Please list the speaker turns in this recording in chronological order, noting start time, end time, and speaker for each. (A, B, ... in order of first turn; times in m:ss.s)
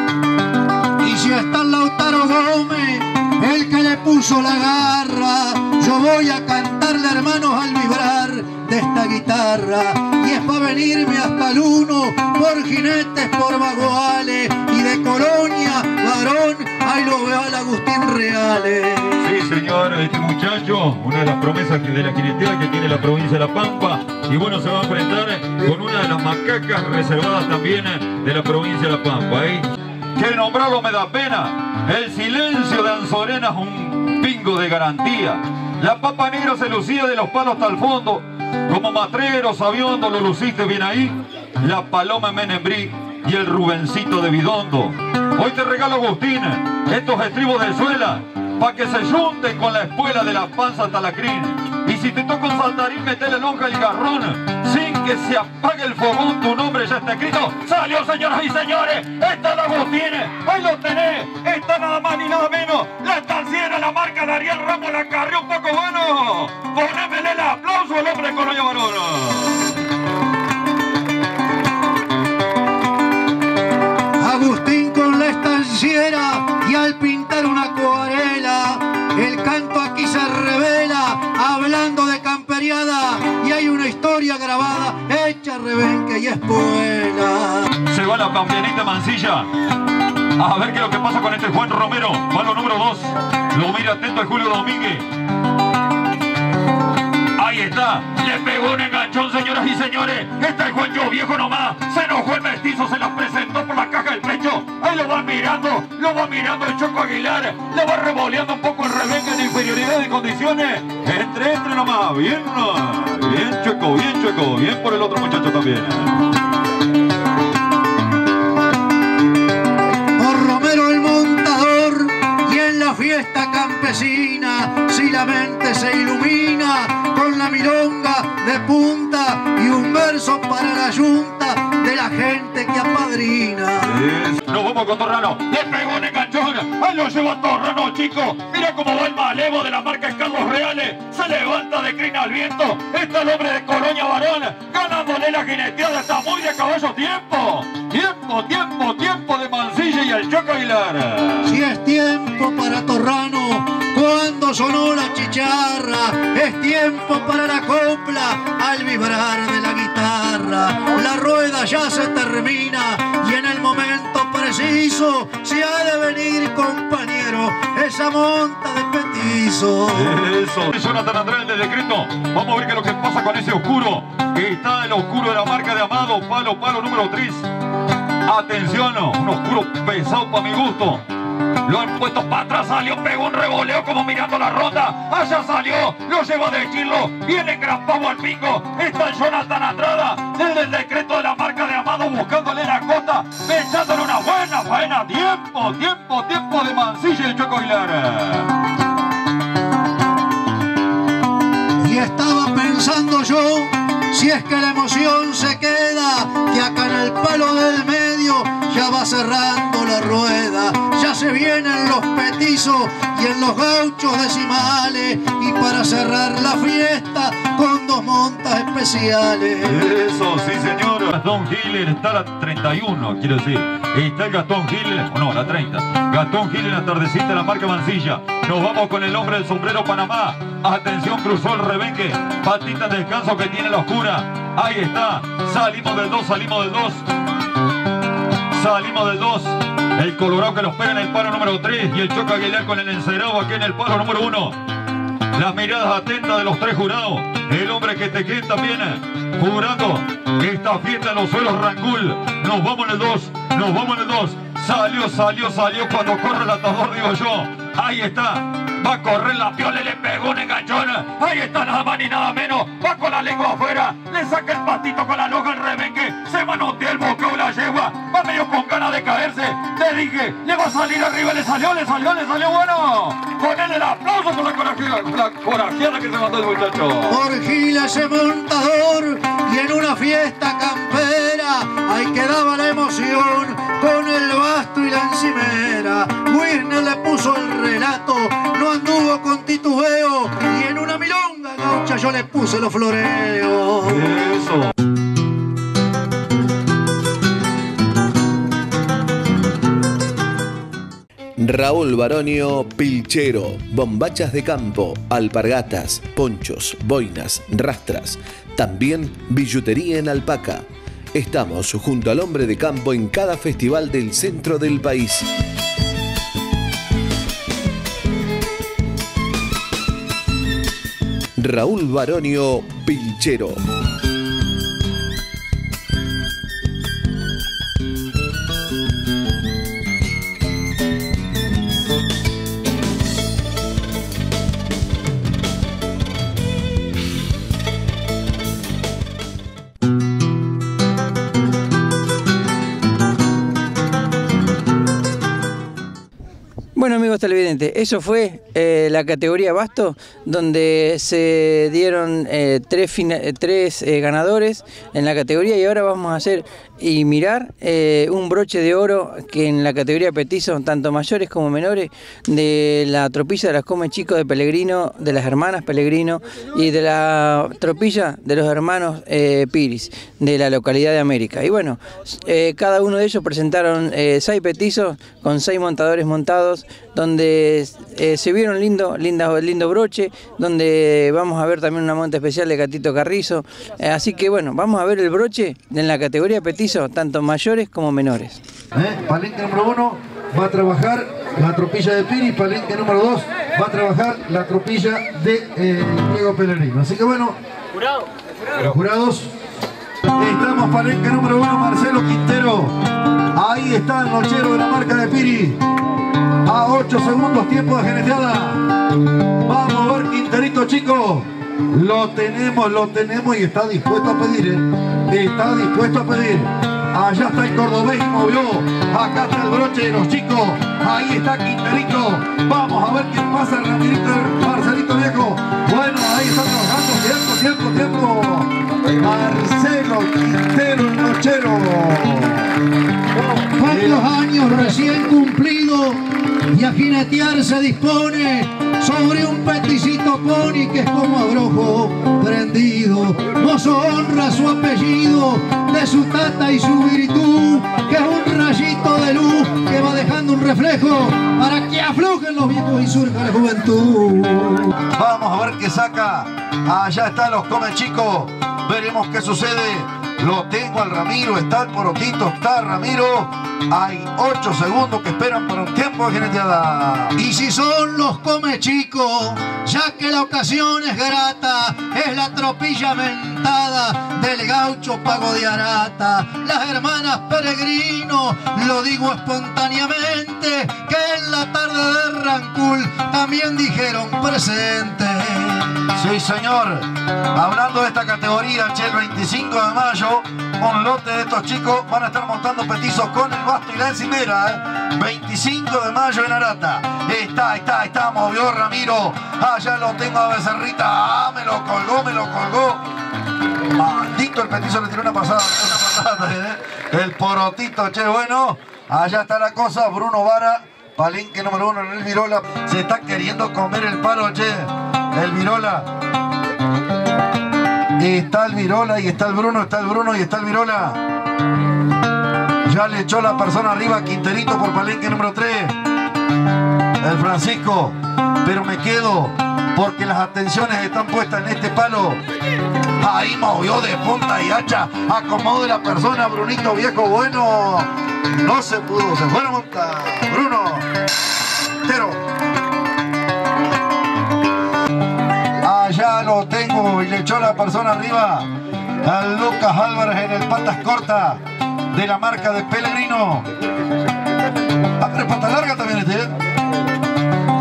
0:01.0-0:19.2 A
0:19.2-1:09.7 B
1:14.2-1:27.7 A
1:27.9-1:29.5 B
1:30.4-1:35.0 B
1:37.4-1:56.3 B
2:00.2-2:14.0 A
2:13.8-2:31.5 B
2:31.4-2:50.1 A
2:49.9-2:57.5 B
2:58.3-3:01.0 B
3:01.6-3:18.5 B
3:21.8-3:39.8 A
3:39.6-3:57.0 B
3:58.5-4:04.6 B
4:05.3-4:37.2 B
4:37.1-4:54.0 A
4:53.9-4:54.7 B
5:01.4-5:15.3 C
5:21.4-5:23.6 C
5:46.8-6:28.4 D
6:28.7-6:37.4 E
6:38.6-6:39.3 E
6:40.2-6:42.8 E
6:43.3-6:45.6 E
6:46.4-6:48.6 E
6:49.4-7:12.5 E
7:13.6-7:16.0 A
7:13.6-7:14.0 E
7:16.5-7:34.7 A
7:34.9-7:47.1 E
7:47.2-8:05.8 A
8:05.9-8:22.8 E
8:23.7-8:35.9 E
8:38.0-8:41.0 E
8:42.6-8:45.8 E
8:47.0-8:52.2 E
8:53.0-9:00.9 E
9:01.8-9:02.2 E
9:05.6-9:08.5 E
9:09.0-9:11.4 E
9:11.9-9:13.4 E
9:15.0-9:16.3 E